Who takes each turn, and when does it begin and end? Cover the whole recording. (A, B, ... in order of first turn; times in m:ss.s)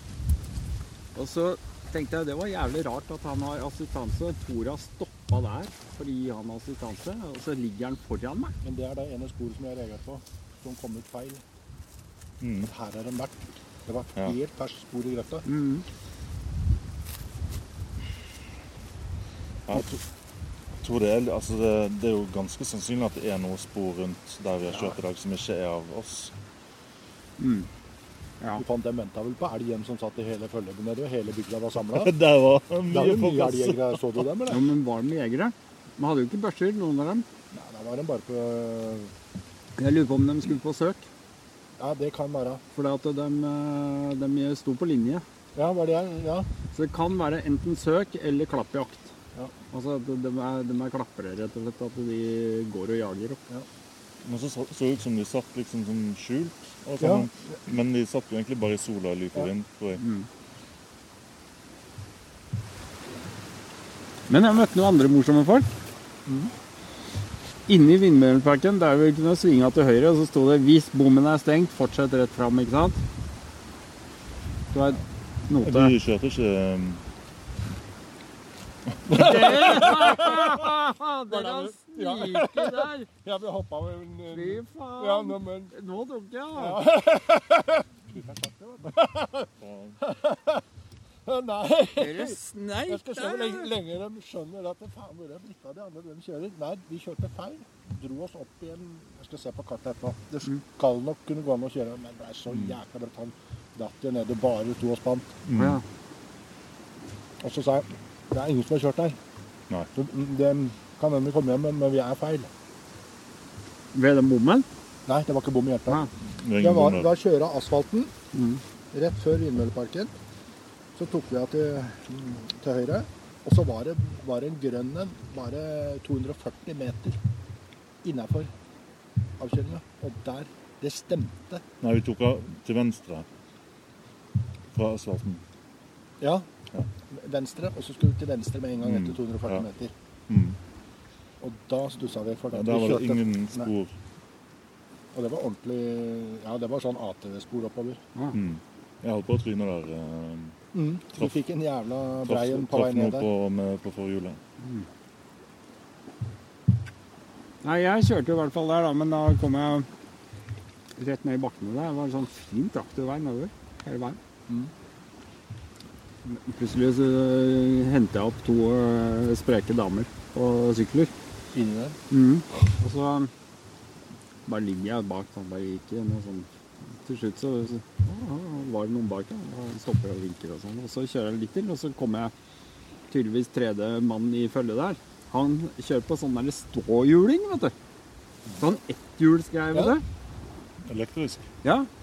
0:01.2-0:08.6 A
0:08.6-0:11.4 B
0:12.4-0:12.7 C
0:12.6-0:15.5 B
0:15.5-0:15.8 A
0:19.7-0:20.0 C
0:20.8-0:26.3 C
0:27.4-0:27.7 A
0:28.6-0:32.1 B
0:32.0-0:34.0 C
0:32.9-0:34.7 B
0:34.5-0:37.3 A
0:37.5-0:39.1 B
0:39.8-0:41.1 A
0:41.8-0:42.6 B
0:42.7-0:45.2 A
0:45.6-0:46.5 B
0:46.7-0:49.1 A
0:49.7-0:53.4 A
0:54.2-1:00.0 C
0:57.0-0:57.3 B
1:00.0-1:00.3 A
1:04.3-1:05.7 A
1:06.3-1:06.5 B
1:07.7-1:13.0 A
1:14.7-1:16.0 A
1:15.6-1:17.0 C
1:19.1-1:19.7 C
1:19.1-1:23.1 A
1:19.1-1:20.5 B
1:21.3-1:25.7 B
1:24.3-1:26.9 A
1:26.6-1:29.5 B
1:29.6-1:30.0 C
1:30.0-1:30.6 B
1:31.3-1:45.3 B
1:32.0-1:33.7 A
1:45.5-1:45.8 C
1:45.5-1:45.8 A
1:47.4-1:49.2 B
1:50.0-1:52.5 B
1:53.9-1:54.7 A
1:55.1-1:56.1 B
1:56.3-1:57.1 C
1:56.6-1:58.1 B
1:58.3-1:58.6 A
1:58.9-2:00.1 B
2:01.0-2:07.2 B
2:08.0-2:08.5 B
2:09.4-2:11.6 B
2:11.8-2:13.3 C
2:14.7-2:15.4 C
2:16.2-2:16.5 B
2:17.1-2:19.9 B
2:18.8-2:19.6 C
2:20.3-2:20.6 C
2:21.4-2:23.7 B
2:22.5-2:23.9 C
2:25.1-2:28.0 B
2:28.3-2:30.6 C
2:30.7-2:33.3 B
2:32.3-2:34.4 C
2:34.6-2:34.9 A
2:37.6-2:39.9 A
2:41.0-2:44.2 A
2:46.2-2:51.1 A
2:51.5-2:52.0 B
2:52.1-2:53.3 A
2:54.5-3:02.3 A
3:03.1-3:07.7 A
3:08.6-3:10.0 A
3:10.8-3:11.4 C
3:11.6-3:11.9 A